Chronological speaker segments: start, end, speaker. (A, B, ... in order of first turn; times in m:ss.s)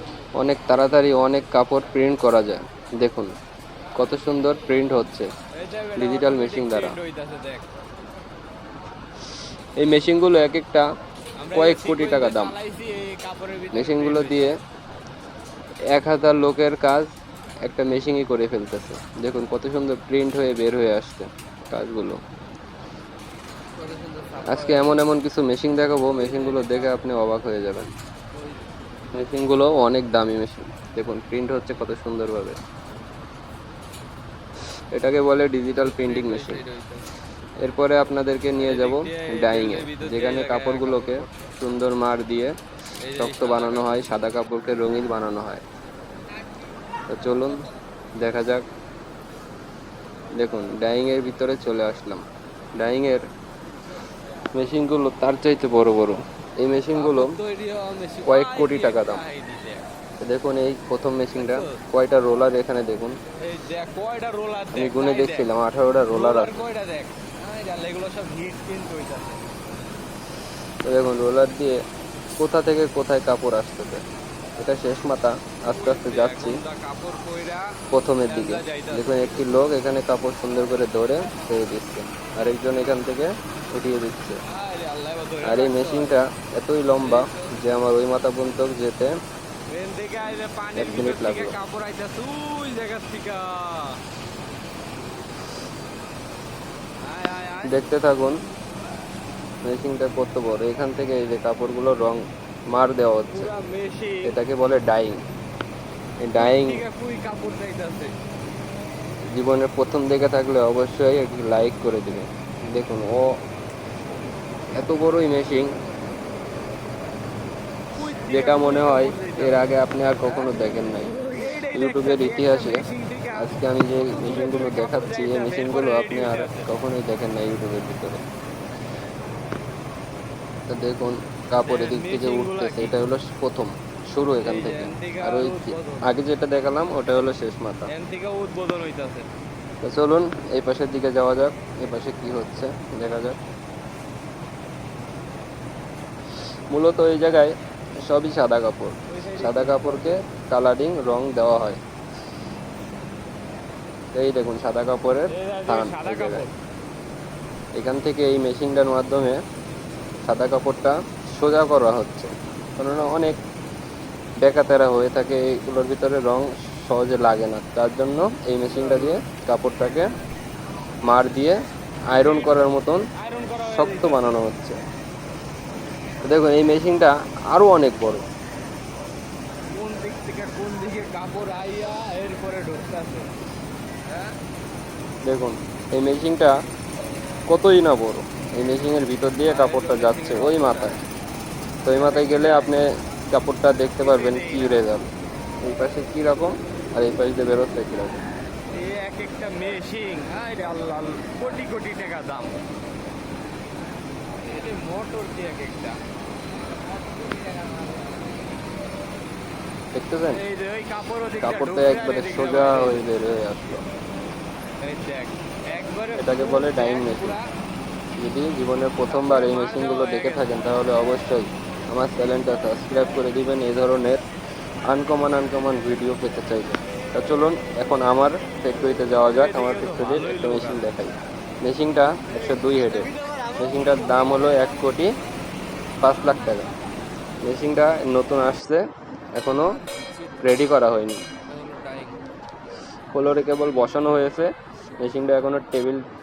0:00.4-0:03.3 A
0:04.0-0:05.3 A
0:05.6-0:07.7 B
0:06.0-0:07.0 A
0:09.8-0:10.8 A
0:11.4-0:14.6 B
0:11.5-0:12.6 A
0:13.7-0:14.5 A
0:15.9-0:17.1 A
0:17.6-0:22.2 A
0:23.8-0:25.1 B
0:24.4-0:27.9 A
0:26.1-0:27.0 B
0:28.3-0:28.7 B
0:29.1-0:32.6 A
0:34.9-0:36.6 A
0:35.8-0:37.1 B
0:37.6-0:42.6 A
0:38.5-0:41.4 B
0:43.0-0:44.2 B
0:43.2-0:45.6 A
0:47.1-0:47.7 A
0:48.2-0:48.6 A
0:50.4-0:52.2 A
0:52.8-0:53.3 A
0:54.5-0:57.4 A
0:56.9-0:59.9 B
0:58.3-0:59.2 A
1:00.2-1:03.2 A
1:01.4-1:01.8 B
1:03.4-1:05.5 B
1:04.7-1:06.7 A
1:06.1-1:09.5 B
1:10.8-1:11.8 A
1:12.4-1:14.0 A
1:14.6-1:16.6 A
1:15.7-1:17.7 B
1:17.9-1:24.4 A
1:18.3-1:19.5 B
1:24.5-1:26.2 B
1:25.4-1:29.2 A
1:27.0-1:27.6 B
1:29.7-1:34.0 B
1:30.8-1:31.6 A
1:37.0-1:37.8 B
1:37.7-1:38.4 A
1:39.6-1:43.5 A
1:43.3-1:44.3 B
1:44.2-1:45.2 A
1:46.2-1:46.8 A
1:46.4-1:48.1 B
1:49.3-1:53.4 A
1:54.8-1:55.8 A
1:58.0-2:06.7 B
1:58.3-2:01.2 A
2:01.7-2:02.8 A
2:03.4-2:08.2 A
2:10.7-2:17.9 A
2:11.6-2:13.0 B
2:14.4-2:16.1 B
2:17.9-2:19.3 B
2:19.8-2:23.4 A
2:26.7-2:31.8 A
2:29.1-2:30.2 B
2:34.1-2:36.5 A
2:35.3-2:36.5 B
2:37.8-2:39.4 A
2:40.2-2:43.4 A
2:44.4-2:50.1 A
2:48.7-2:49.2 B
2:51.1-2:51.6 A
2:52.1-2:53.0 A
2:52.1-2:52.6 B
2:53.2-2:54.3 B
2:53.6-2:54.8 A
2:56.2-2:58.2 A
2:59.7-3:03.3 B
3:04.1-3:04.4 B
3:05.2-3:06.5 A
3:07.5-3:11.0 A
3:09.4-3:11.0 B
3:11.8-3:15.1 A
3:11.9-3:12.8 B
3:14.0-3:14.8 B
3:15.6-3:18.2 A
3:18.7-3:22.6 B
3:24.4-3:26.0 B
3:26.7-3:28.3 B
3:29.9-3:30.4 A
3:30.3-3:33.1 B
3:31.4-3:33.8 A
3:34.8-3:37.5 B
3:36.2-3:37.4 A
3:38.2-3:44.2 A
3:39.1-3:40.7 B
3:44.9-3:55.1 A
3:49.1-3:50.8 B
3:52.3-3:54.8 B
3:56.0-3:56.7 A
3:57.4-3:59.8 A
4:00.4-4:01.3 A
4:01.5-4:02.2 B
4:03.1-4:06.0 A